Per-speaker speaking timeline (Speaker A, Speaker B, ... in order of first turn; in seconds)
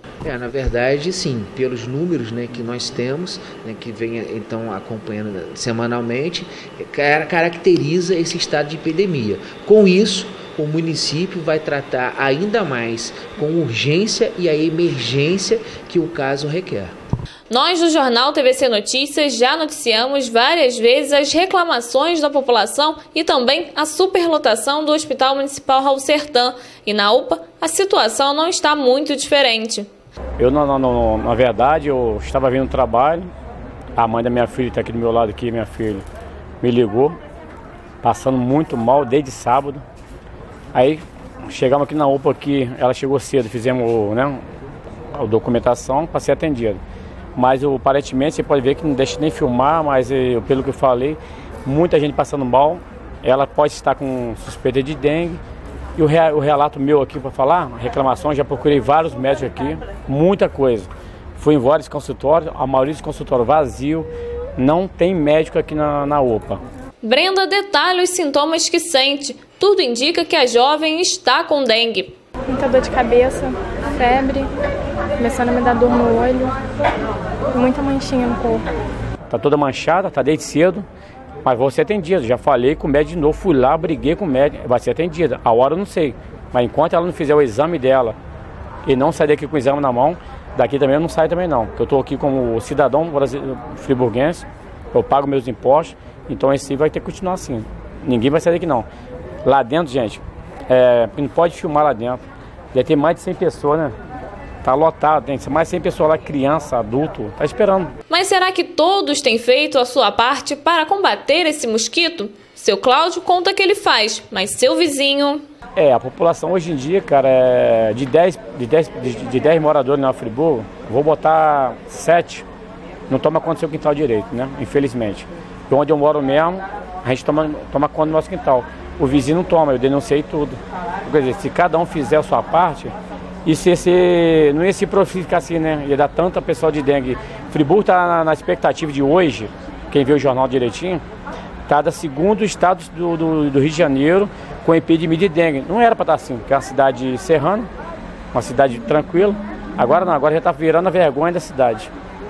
Speaker A: 0.2-16.9
Speaker B: 17.5-29.9, 67.0-72.1, 108.1-115.4
Speaker C: 30.4-33.2, 34.0-36.0, 36.6-37.1, 38.0-39.8, 40.7-44.4, 45.1-46.8, 47.4-55.4, 56.0-66.6, 79.3-80.8, 81.4-88.2, 88.8-98.8, 99.4-102.2, 102.7-103.9, 104.6-107.9, 115.8-122.4, 123.1-132.9, 133.4-141.0, 141.7-147.7, 148.3-151.9
Speaker D: 72.5-74.5, 75.2-76.5, 77.5-78.7